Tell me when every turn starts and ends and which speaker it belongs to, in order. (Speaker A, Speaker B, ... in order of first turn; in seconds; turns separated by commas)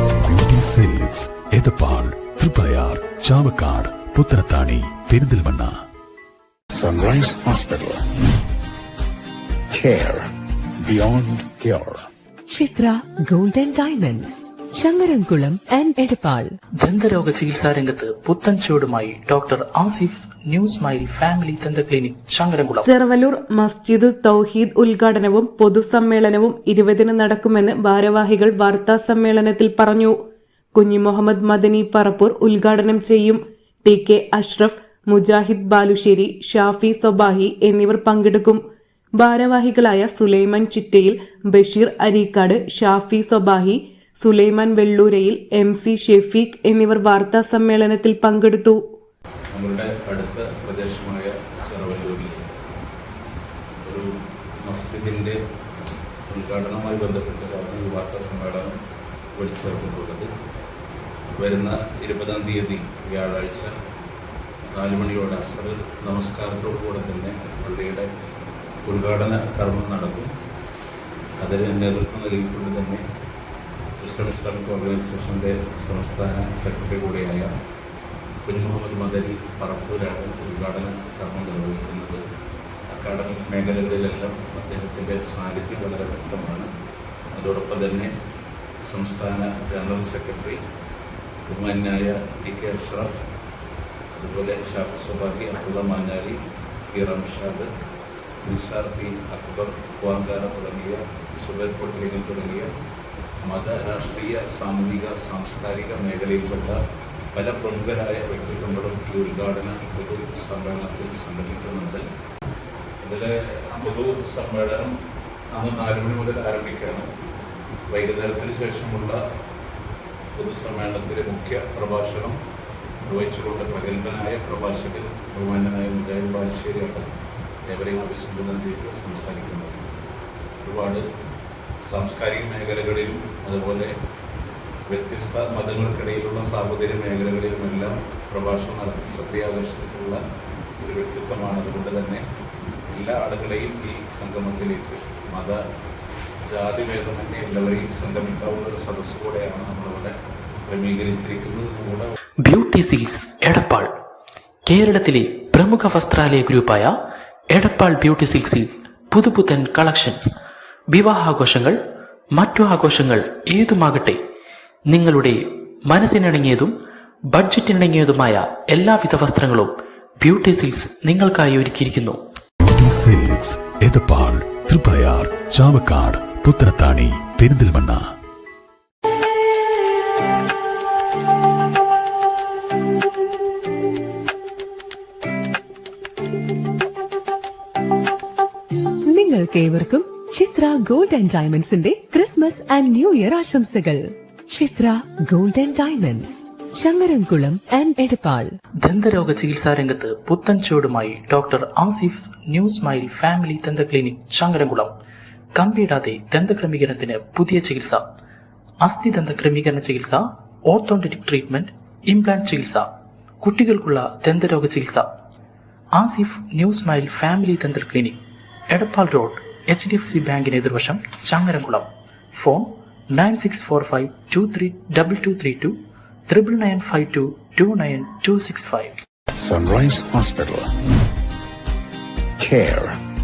Speaker A: 0.2-5.7, Speaker B: 6.8-8.0, Speaker B: 9.7-10.3, Speaker B: 10.8-12.1, Speaker C: 12.5-16.5, Speaker D: 16.8-22.9, Speaker E: 22.8-30.1, Speaker E: 30.7-38.6, Speaker E: 39.1-48.8, Speaker F: 49.5-52.4, Speaker F: 53.8-55.4, Speaker F: 56.3-58.7, Speaker F: 59.4-60.3, Speaker F: 61.3-63.7, Speaker F: 64.7-68.1, Speaker F: 68.8-70.3, Speaker F: 71.4-73.0, Speaker F: 74.0-77.5, Speaker F: 78.5-82.2, Speaker F: 82.9-86.7, Speaker F: 87.3-88.1, Speaker F: 88.8-90.6, Speaker F: 91.5-93.1, Speaker F: 94.2-96.3, Speaker F: 96.9-97.7, Speaker F: 98.4-102.7, Speaker F: 103.4-106.8, Speaker F: 107.3-112.0, Speaker F: 113.0-114.9, Speaker F: 115.5-117.0, Speaker F: 117.9-119.2, Speaker F: 120.4-122.3, Speaker F: 123.0-127.1, Speaker F: 127.7-129.8, Speaker F: 130.6-131.0, Speaker F: 131.9-133.9, Speaker F: 134.9-140.2, Speaker F: 140.8-142.2, Speaker F: 142.9-145.6, Speaker F: 146.5-150.1, Speaker F: 150.7-152.1, Speaker D: 152.4-153.9, Speaker D: 154.7-156.9, Speaker D: 157.5-160.3, Speaker D: 160.9-161.8, Speaker D: 162.3-164.2, Speaker D: 164.9-166.7, Speaker D: 167.3-172.2, Speaker A: 172.6-178.0, Speaker C: 189.1-198.5, Speaker D: 198.8-204.9, Speaker D: 205.5-208.0, Speaker D: 208.8-212.9, Speaker D: 213.4-215.1, Speaker D: 215.9-218.2, Speaker D: 218.7-225.8, Speaker D: 226.3-228.9, Speaker B: 229.4-230.7, Speaker B: 232.4-232.9